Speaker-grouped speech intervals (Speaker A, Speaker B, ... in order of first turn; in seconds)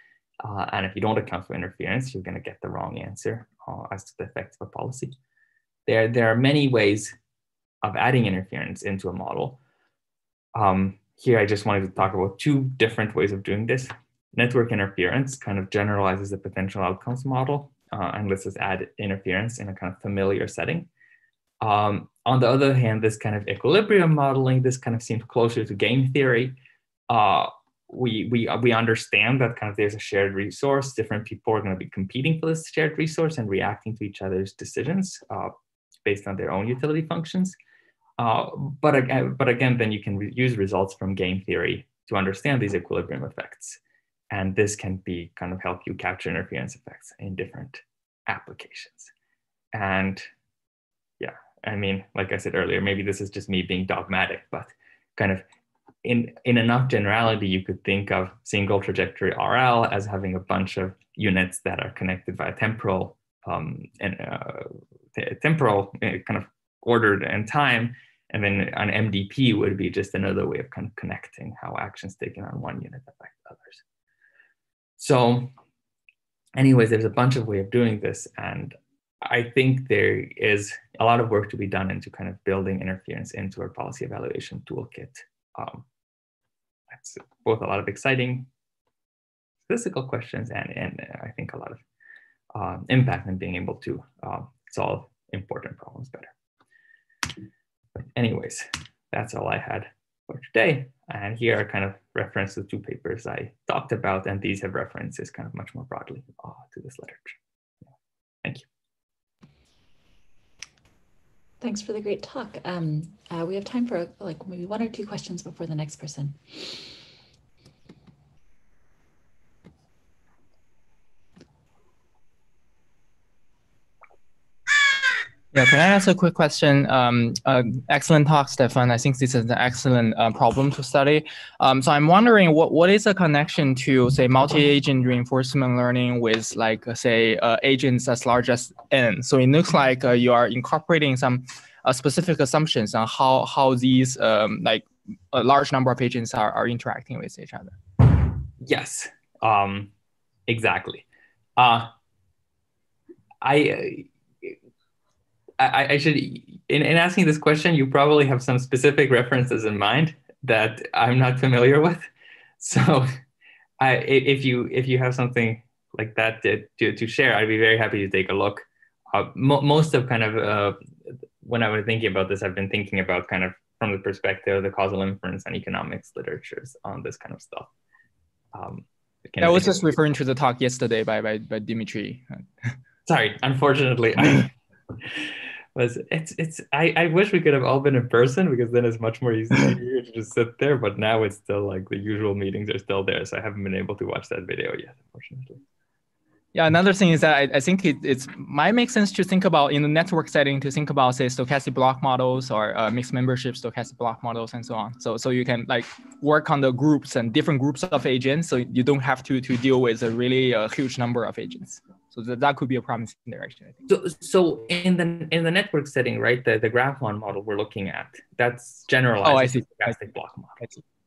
Speaker A: 0.4-5.1, 5.9-7.2, 7.8-9.6, 10.5-20.9, 21.6-26.6, 27.1-35.5, 36.0-37.6, 38.2-43.8, 44.3-49.1, 49.7-50.3, 51.2-55.4, 56.0-73.8, 75.0-75.5, 76.6-85.8, 86.9-88.5, 89.7-91.8, 92.5-96.3, 98.0-107.4, 148.6-149.9, 150.5-151.1, 151.6-151.9, 153.4-154.6, 155.6-162.0, 162.6-163.1, 163.8-170.8, 171.4-177.7, 178.5-179.8, 183.1-195.6, 213.9-220.6
Speaker B: 111.6-116.8
Speaker C: 125.5-147.8, 179.4-182.7, 196.5-213.9, 219.2-219.9